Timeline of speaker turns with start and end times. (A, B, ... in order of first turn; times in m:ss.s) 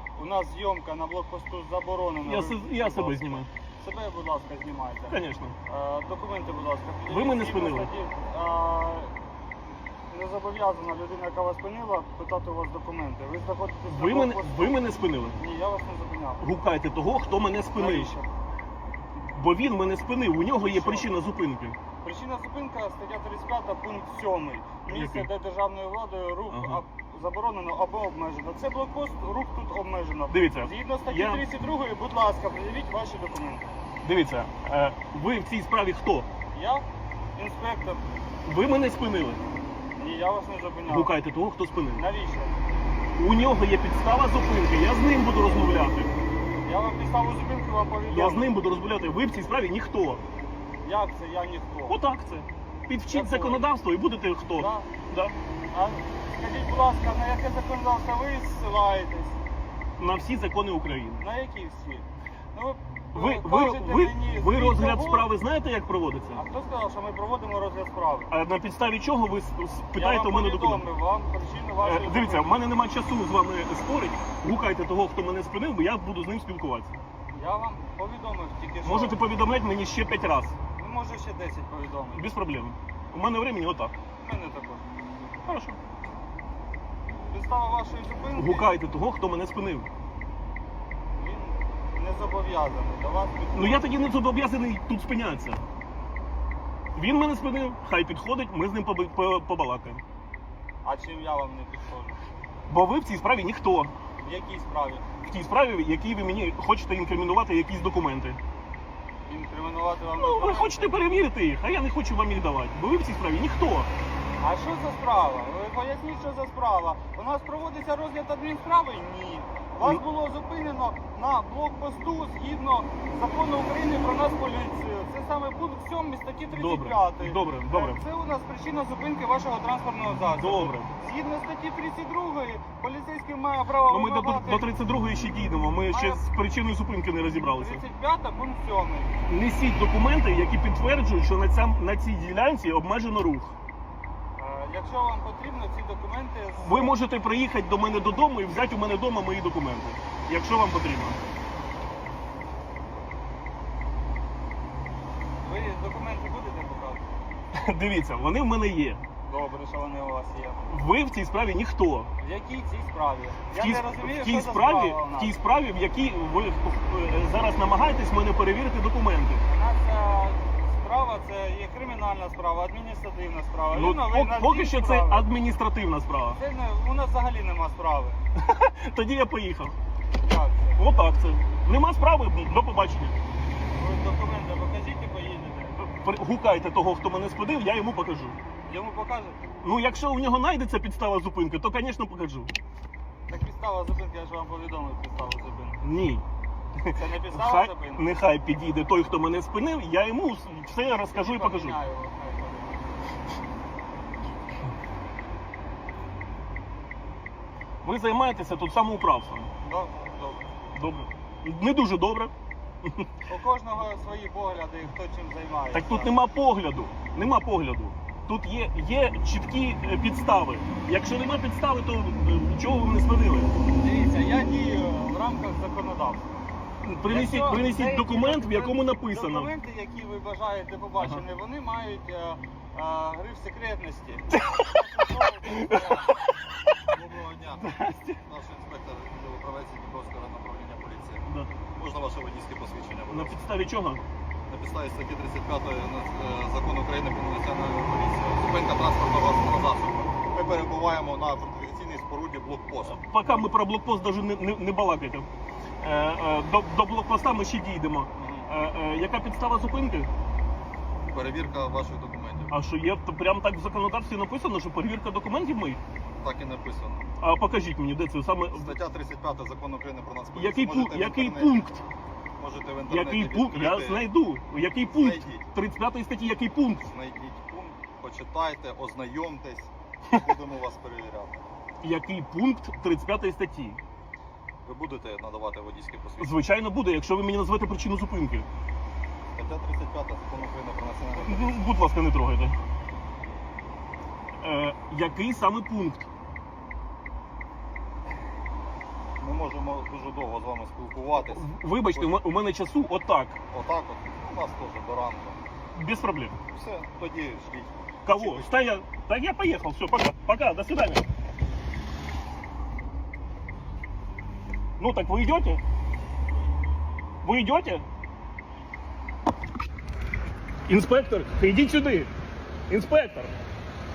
0:00.2-0:09.1 A
0:02.2-0:03.5 B
0:05.1-0:05.5 B
0:07.1-0:07.9 B
0:10.1-0:14.8 A
0:13.9-0:15.4 B
0:15.4-0:16.5 A
0:16.4-0:18.2 B
0:17.7-0:18.3 A
0:19.2-0:21.8 B
0:20.6-0:21.1 A
0:22.0-0:33.7 A
0:24.9-0:25.3 B
0:26.5-0:26.8 B
0:30.3-0:31.5 B
0:34.0-0:36.3 B
0:36.5-0:36.8 A
0:37.4-0:38.0 A
0:38.4-0:39.4 B
0:40.0-0:41.1 A
0:40.9-0:42.0 B
0:42.0-0:42.6 A
0:43.2-0:46.1 B
0:46.6-0:48.5 A
0:48.1-0:50.2 B
0:50.8-0:52.0 A
0:51.9-0:55.3 B
0:53.1-0:53.7 A
0:54.6-0:54.9 A
0:55.7-0:59.4 A
1:00.0-1:01.2 B
1:01.2-1:05.3 A
1:03.1-1:06.4 B
1:06.3-1:08.3 A
1:08.3-1:10.8 B
1:10.0-1:12.6 A
1:11.8-1:16.9 B
1:17.3-1:19.2 A
1:18.8-1:20.6 B
1:20.8-1:22.3 A
1:22.1-1:23.9 B
1:24.2-1:24.8 A
1:25.4-1:25.8 B
1:27.3-1:28.7 A
1:28.3-1:29.9 B
1:31.1-1:33.9 A
1:33.5-1:35.6 B
1:36.9-1:40.0 B
1:40.8-1:42.2 A
1:42.7-1:43.9 B
1:44.2-1:45.0 A
1:45.2-1:48.4 B
1:49.2-1:51.0 A
1:50.2-1:53.9 B
1:54.4-2:14.7 A
2:06.5-2:08.0 B
2:10.4-2:10.9 B
2:13.9-2:17.8 B
2:15.9-2:16.2 A
2:17.5-2:19.2 A
2:19.3-2:23.6 B
2:24.4-2:26.9 A
2:26.6-2:31.2 B
2:35.4-2:37.1 A
2:37.5-2:39.0 B
2:39.2-2:40.7 A
2:40.7-2:42.1 B
2:42.2-2:45.3 A
2:43.5-2:49.4 B
2:49.4-2:55.3 A
2:53.7-2:56.4 B
2:56.3-2:58.2 A
2:58.3-2:59.7 B
3:00.2-3:00.8 A
3:00.8-3:03.2 B
3:03.7-3:05.9 A
3:06.0-3:08.4 B
3:08.6-3:09.4 A
3:09.6-3:12.5 B
3:13.3-3:15.8 A
3:15.8-3:16.2 B
3:16.8-3:21.8 B
3:16.9-3:18.1 A
3:21.1-3:23.0 A
3:27.8-3:29.5 B
3:29.6-3:30.5 A
3:30.7-3:32.3 B
3:32.8-3:33.1 B
3:33.3-3:36.1 A
3:35.7-3:43.6 B
3:43.7-3:46.3 A
3:46.8-3:49.5 B
3:47.0-3:56.1 A
3:55.5-3:56.0 B
3:56.9-4:03.4 C
3:57.6-3:58.2 B
4:01.3-4:01.5 B
4:03.1-4:04.0 B
4:04.5-4:13.0 C
4:12.8-4:15.3 B
4:15.8-4:20.1 B
4:21.1-4:22.5 C
4:22.5-4:25.8 B
4:26.2-4:27.1 C
4:27.2-4:28.8 B
4:28.5-4:31.6 C
4:30.3-4:31.8 B
4:32.4-4:34.1 C
4:32.9-4:36.8 B
4:34.8-4:35.5 C
4:36.8-4:39.7 C
4:40.2-4:41.4 C
4:41.8-4:43.8 B
4:44.6-4:46.4 C
4:46.2-4:48.5 B
4:49.3-4:51.7 C
4:51.2-4:52.6 B
4:54.4-4:56.1 B
4:59.2-5:02.1 C
5:01.2-5:03.4 B
5:03.5-5:05.4 C
5:05.7-5:06.4 B
5:06.5-5:08.5 C
5:08.0-5:11.0 B
5:14.8-5:15.6 B
5:17.2-5:17.8 B
5:20.7-5:22.1 B
5:22.7-5:23.3 B